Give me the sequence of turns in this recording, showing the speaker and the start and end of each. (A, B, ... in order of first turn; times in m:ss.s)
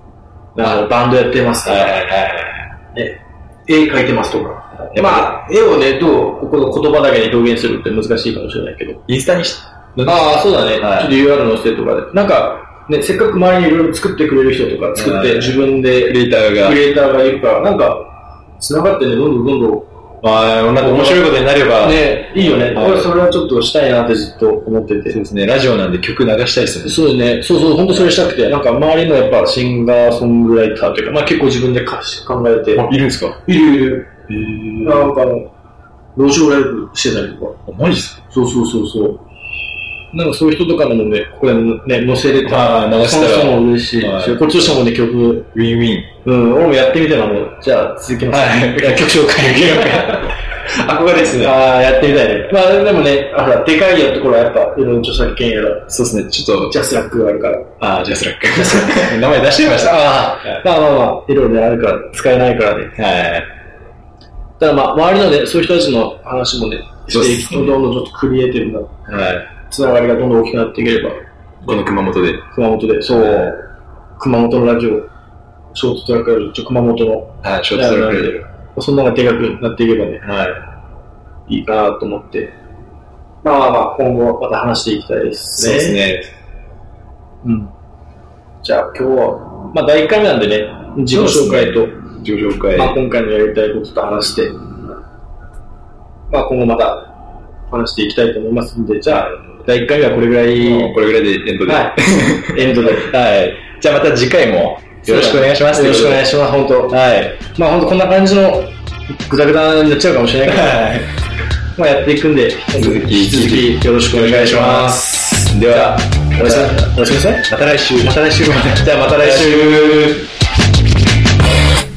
0:00.6-0:02.1 A
0:00.6-0:00.9 B
0:01.6-0:02.7 B
0:02.9-0:09.0 A
0:04.8-0:05.4 B
0:09.1-0:11.1 B
0:10.0-0:19.9 A
0:15.0-0:16.8 B
0:20.2-0:23.1 B
0:20.8-0:25.2 A
0:25.1-0:27.0 B
0:26.8-0:32.9 A
0:27.9-0:28.2 B
0:32.7-0:33.4 B
0:33.5-0:34.1 A
0:34.3-0:35.2 B
0:34.8-0:35.5 A
0:36.2-0:37.6 A
0:37.7-0:38.2 B
0:38.3-0:39.2 A
0:40.1-0:45.5 A
0:42.4-0:44.5 B
0:45.5-0:46.1 B
0:46.2-0:50.3 A
0:48.3-0:51.8 B
0:51.4-0:55.9 A
0:55.9-0:56.8 B
0:56.6-0:57.7 A
0:57.8-1:00.6 B
0:58.6-0:59.1 A
0:59.8-1:03.0 A
1:03.0-1:03.5 B
1:04.6-1:08.9 A
1:07.1-1:07.8 B
1:09.1-1:09.5 B
1:09.7-1:11.8 A
1:11.6-1:12.4 B
1:12.5-1:15.1 A
1:13.1-1:13.5 B
1:15.7-1:20.2 A
1:17.4-1:18.5 B
1:20.2-1:20.6 B
1:21.5-1:22.5 A
1:23.4-1:26.0 A
1:25.6-1:26.3 B
1:27.4-1:27.7 A
1:28.6-1:32.0 A
1:31.1-1:33.0 B
1:32.7-1:34.7 A
1:36.3-1:37.1 A
1:37.7-1:41.0 A
1:39.1-1:39.6 B
1:40.6-1:46.3 B
1:41.7-1:43.1 A
1:45.0-1:50.9 A
1:46.9-1:47.4 B
1:50.4-1:51.1 B
1:51.8-1:55.0 A
1:52.8-1:56.8 B
1:55.7-1:57.5 A
1:57.5-2:00.2 B
1:58.7-2:00.3 A